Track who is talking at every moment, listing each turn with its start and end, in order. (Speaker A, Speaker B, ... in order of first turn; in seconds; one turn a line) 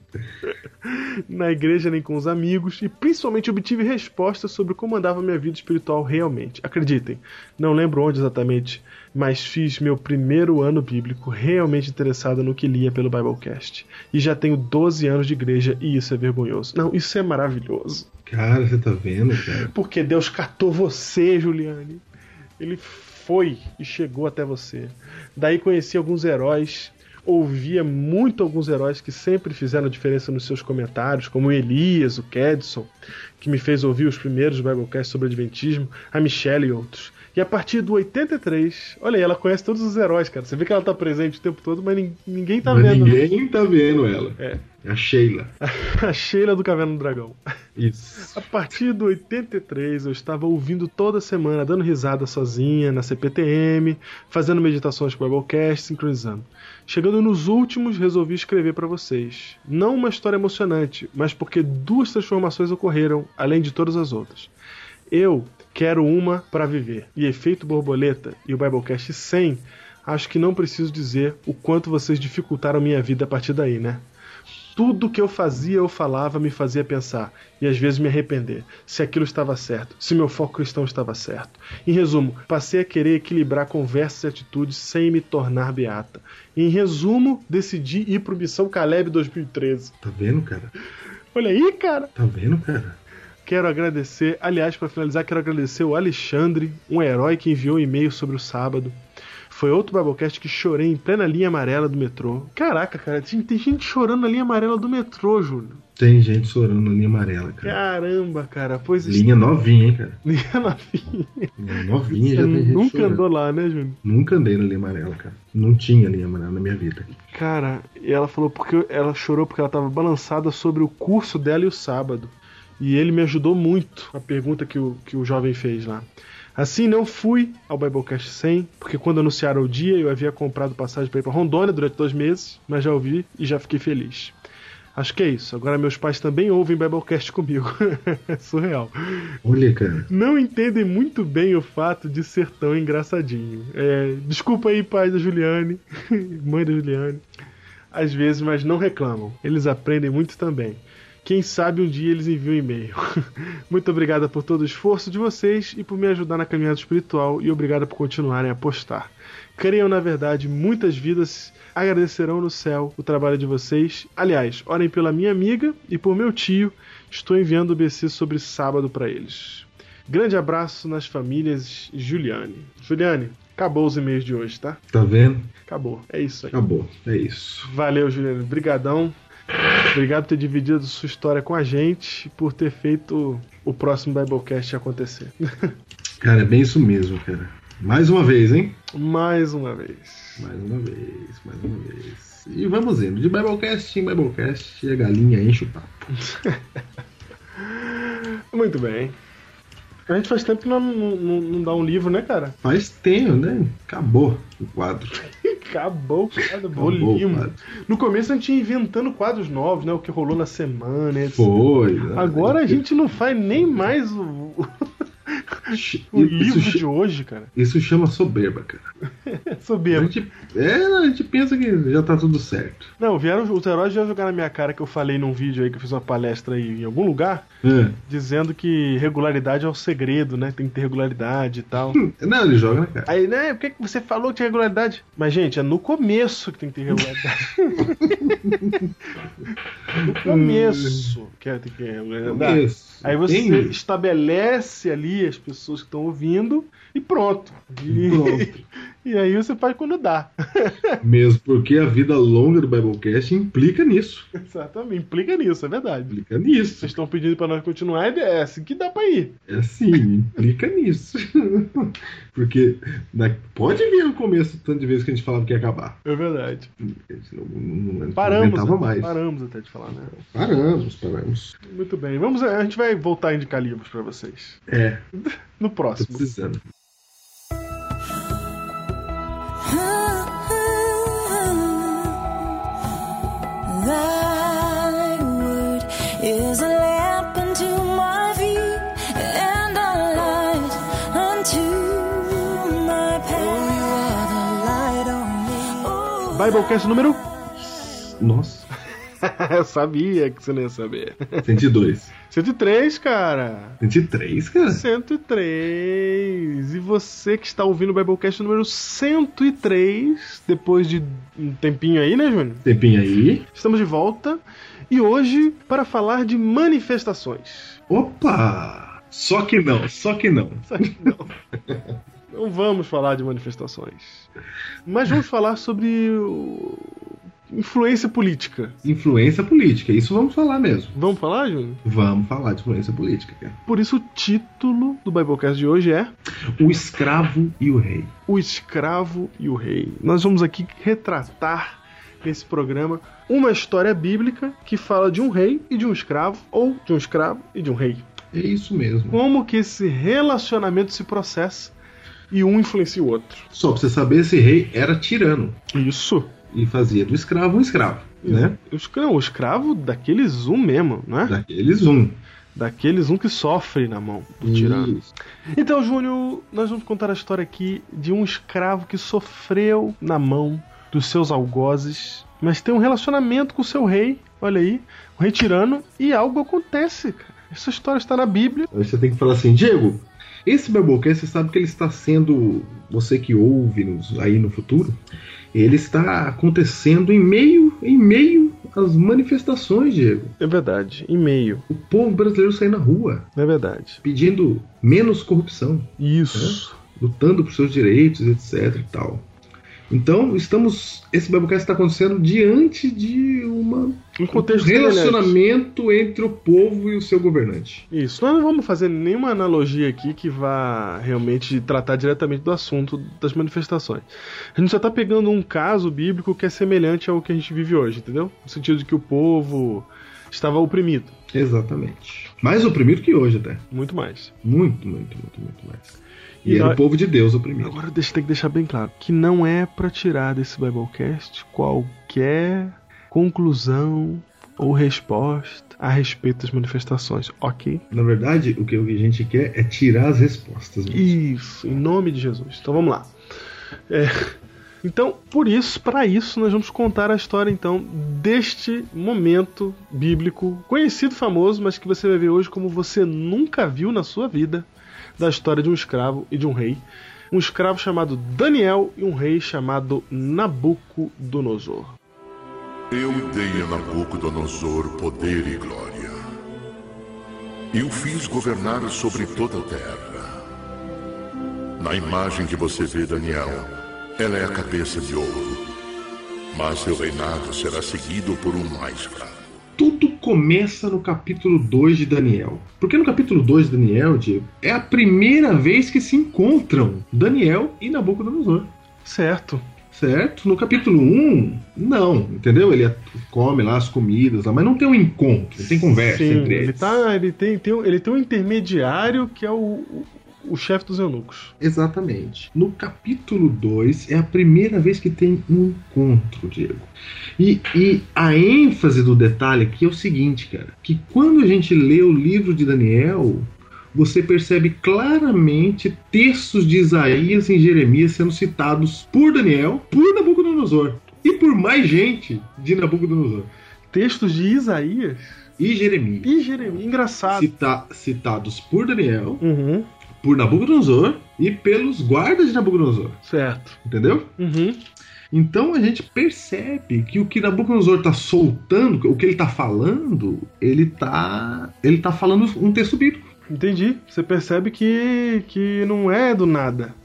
Speaker A: 0.4-18.1
Speaker B: 18.3-19.7
Speaker A: 19.6-22.0
Speaker A: 22.6-43.2
Speaker B: 42.6-45.5
Speaker A: 44.4-44.6
Speaker A: 45.6-47.4
Speaker B: 47.8-48.5
Speaker A: 48.3-64.5
Speaker A: 65.1-74.0
Speaker A: 74.7-89.9
Speaker B: 90.0-90.7
Speaker A: 91.3-92.1
Speaker B: 92.1-93.0
Speaker A: 93.4-99.0
Speaker A: 99.5-105.8
Speaker B: 106.0-107.8
Speaker A: 107.6-109.3
Speaker B: 109.0-110.2
Speaker A: 110.2-111.5
Speaker B: 111.6-113.2
Speaker A: 112.1-114.0
Speaker B: 114.0-117.1
Speaker A: 117.3-134.3
Speaker A: 134.9-139.3
Speaker B: 139.4-140.1
Speaker A: 140.1-147.2
Speaker A: 147.9-174.8
Speaker B: 174.9-175.5
Speaker A: 175.7-176.6
Speaker B: 176.5-177.7
Speaker A: 177.6-179.1
Speaker A: 179.8-185.7
Speaker B: 186.2-188.8
Speaker A: 188.9-190.5
Speaker B: 190.4-196.0
Speaker A: 196.2-196.8
Speaker A: 197.6-199.2
Speaker A: 200.1-202.6
Speaker B: 202.6-205.2
Speaker A: 205.3-211.5
Speaker B: 206.7-207.6
Speaker B: 211.3-212.8
Speaker A: 212.1-217.5
Speaker B: 215.7-216.8
Speaker B: 217.5-218.9
Speaker A: 219.2-220.1
Speaker B: 219.9-222.9
Speaker A: 223.0-227.5
Speaker B: 227.6-228.0
Speaker A: 228.1-232.0
Speaker B: 231.9-233.1
Speaker A: 233.1-238.6
Speaker B: 237.8-238.9
Speaker A: 239.5-248.5
Speaker B: 239.9-241.2
Speaker B: 242.2-243.8
Speaker B: 247.9-248.6
Speaker A: 249.0-251.0
Speaker B: 251.0-254.3
Speaker A: 254.3-256.2
Speaker B: 256.1-256.9
Speaker A: 256.8-259.4
Speaker B: 259.5-266.0
Speaker A: 266.0-266.7
Speaker B: 266.8-269.2
Speaker A: 268.1-270.1
Speaker B: 270.1-271.6
Speaker A: 271.6-274.6
Speaker B: 274.7-275.0
Speaker A: 275.1-276.3
Speaker B: 276.0-276.6
Speaker C: 279.6-282.4
Speaker C: 283.6-296.7
Speaker A: 296.3-297.2
Speaker B: 297.6-298.7
Speaker A: 299.2-301.4
Speaker B: 301.4-302.1
Speaker A: 302.2-303.8
Speaker B: 303.8-304.8
Speaker A: 304.7-312.6
Speaker B: 312.6-313.4
Speaker A: 313.5-317.8
Speaker B: 317.9-321.1
Speaker A: 320.6-321.3
Speaker B: 321.7-321.9
Speaker A: 322.3-324.3
Speaker A: 324.9-328.8
Speaker B: 328.8-330.9
Speaker A: 330.9-331.8
Speaker B: 331.8-333.6
Speaker A: 333.6-336.1
Speaker B: 336.6-338.1
Speaker A: 338.3-348.1
Speaker B: 348.3-349.2
Speaker A: 349.1-351.7
Speaker A: 352.3-353.5
Speaker B: 353.5-355.6
Speaker A: 355.7-356.3
Speaker B: 356.5-358.6
Speaker A: 358.2-361.4
Speaker B: 361.2-362.2
Speaker A: 362.5-365.0
Speaker B: 364.4-365.1
Speaker A: 365.5-378.7
Speaker B: 378.7-385.0
Speaker B: 385.5-390.3
Speaker A: 390.4-391.6
Speaker B: 391.7-393.3
Speaker A: 393.4-394.0
Speaker B: 394.0-399.2
Speaker A: 396.0-396.8
Speaker B: 399.9-407.9
Speaker A: 404.2-405.4
Speaker A: 407.9-421.1
Speaker B: 421.3-423.6
Speaker A: 423.7-424.3
Speaker B: 424.4-427.8
Speaker A: 426.4-426.8
Speaker A: 427.6-437.8
Speaker B: 437.9-441.1
Speaker A: 440.9-443.1
Speaker A: 443.9-454.7
Speaker A: 455.2-462.0
Speaker D: 462.9-466.1
Speaker D: 467.7-470.3
Speaker D: 471.8-475.6
Speaker D: 476.5-479.4
Speaker B: 479.8-488.7
Speaker A: 489.0-489.6
Speaker B: 489.9-497.0
Speaker A: 495.6-501.5
Speaker B: 501.6-523.5
Speaker A: 523.9-525.4
Speaker B: 525.6-526.3
Speaker A: 526.2-527.5
Speaker B: 527.3-529.4
Speaker A: 529.4-529.9
Speaker B: 530.2-533.2
Speaker A: 533.2-533.8
Speaker B: 533.8-534.3
Speaker A: 534.4-534.8
Speaker B: 535.3-543.3
Speaker A: 543.5-546.9